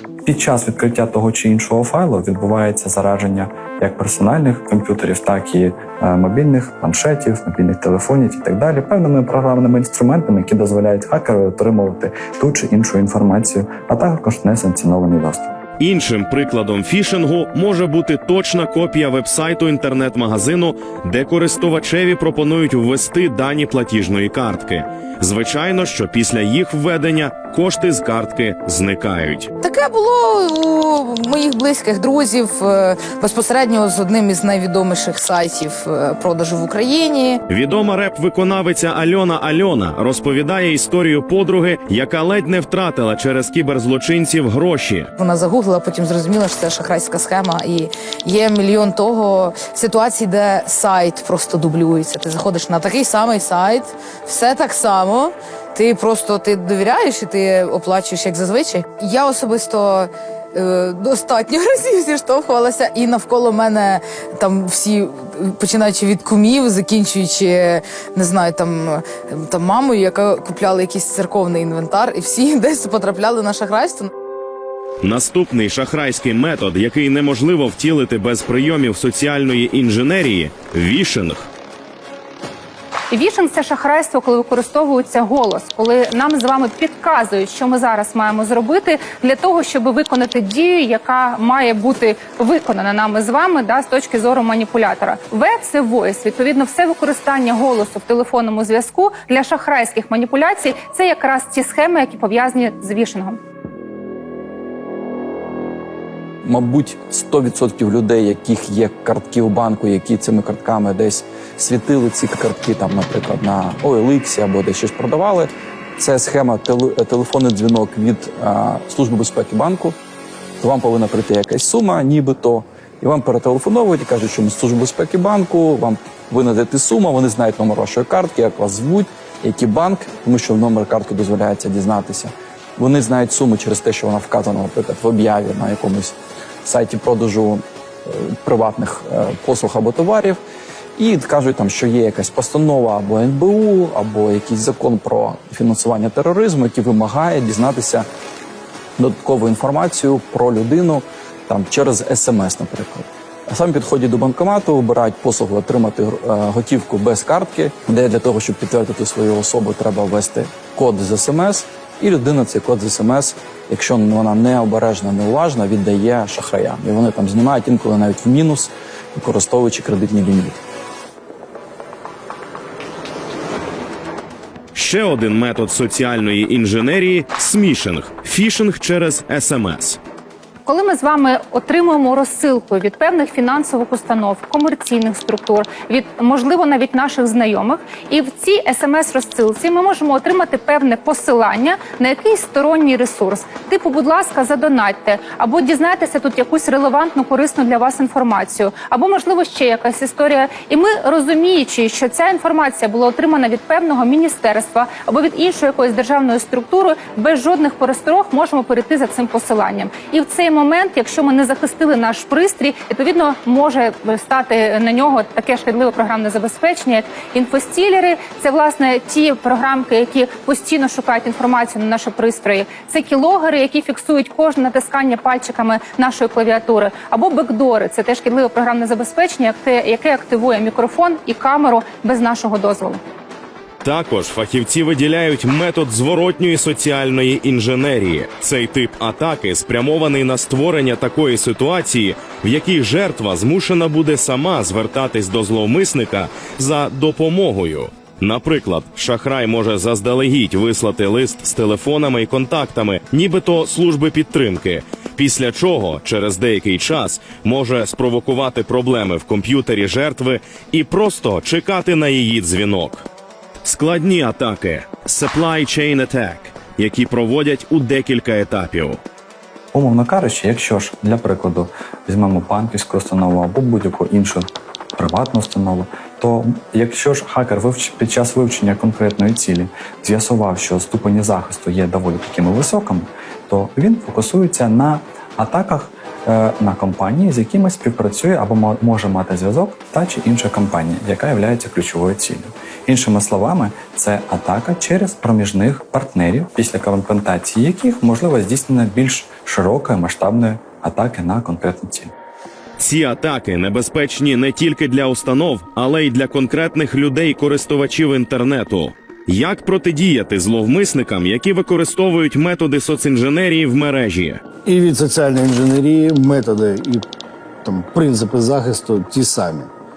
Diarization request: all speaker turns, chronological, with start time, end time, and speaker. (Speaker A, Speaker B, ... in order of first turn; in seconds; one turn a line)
Speaker A: 0.2-15.6
Speaker B: 15.8-29.5
Speaker C: 29.6-37.4
Speaker B: 37.5-45.1
Speaker C: 45.2-74.1
Speaker B: 75.0-81.5
Speaker D: 83.1-103.4
Speaker E: 106.4-120.0
Speaker E: 120.6-140.4
Speaker E: 141.0-148.1
Speaker E: 149.0-170.6
Speaker B: 174.7-180.0
Speaker D: 180.7-233.0
Speaker B: 233.8-263.1
Speaker B: 263.6-269.0
Speaker A: 269.7-302.1
Speaker B: 302.8-314.4
Speaker F: 314.6-317.0
Speaker F: 317.6-319.7